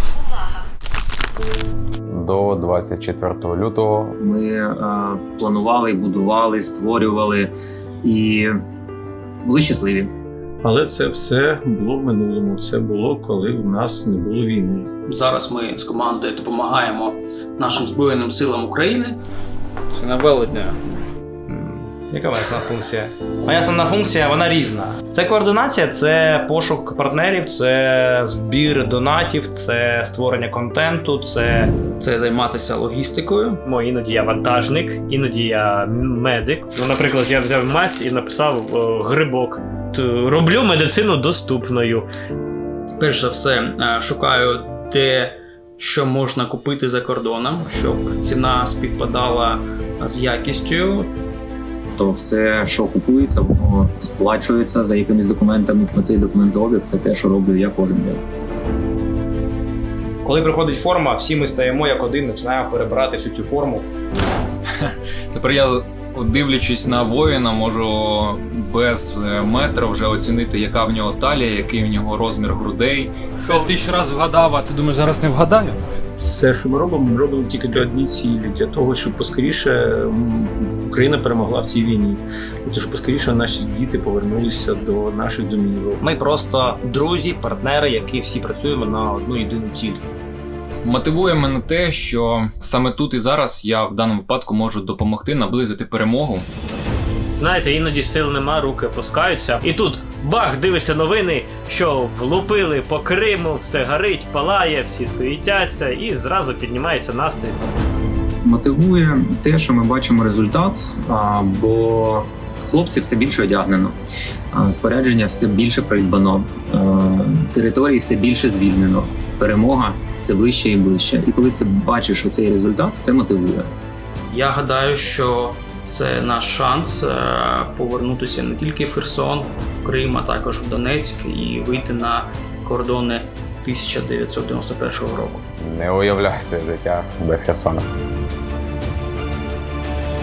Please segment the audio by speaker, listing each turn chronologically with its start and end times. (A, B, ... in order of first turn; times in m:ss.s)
0:02.1-0:04.2 A
0:04.2-0:07.5 B
0:08.0-0:08.5 B
0:09.4-0:10.1 B
0:10.6-0:14.9 C
0:15.0-0:19.2 D
0:20.0-0:20.7 D
0:21.5-0:31.7 E
0:32.0-0:33.6 D
0:33.6-0:42.1 F
0:43.0-0:51.1 D
0:52.0-0:58.2 B
1:00.2-1:03.9 E
1:04.8-1:15.8 G
1:16.2-1:26.0 C
1:26.0-1:30.0 E
1:30.8-1:36.4 G
1:37.4-1:47.6 F
1:48.4-1:53.9 B
1:54.5-2:03.7 B
2:04.3-2:15.4 D
2:15.6-2:17.9 A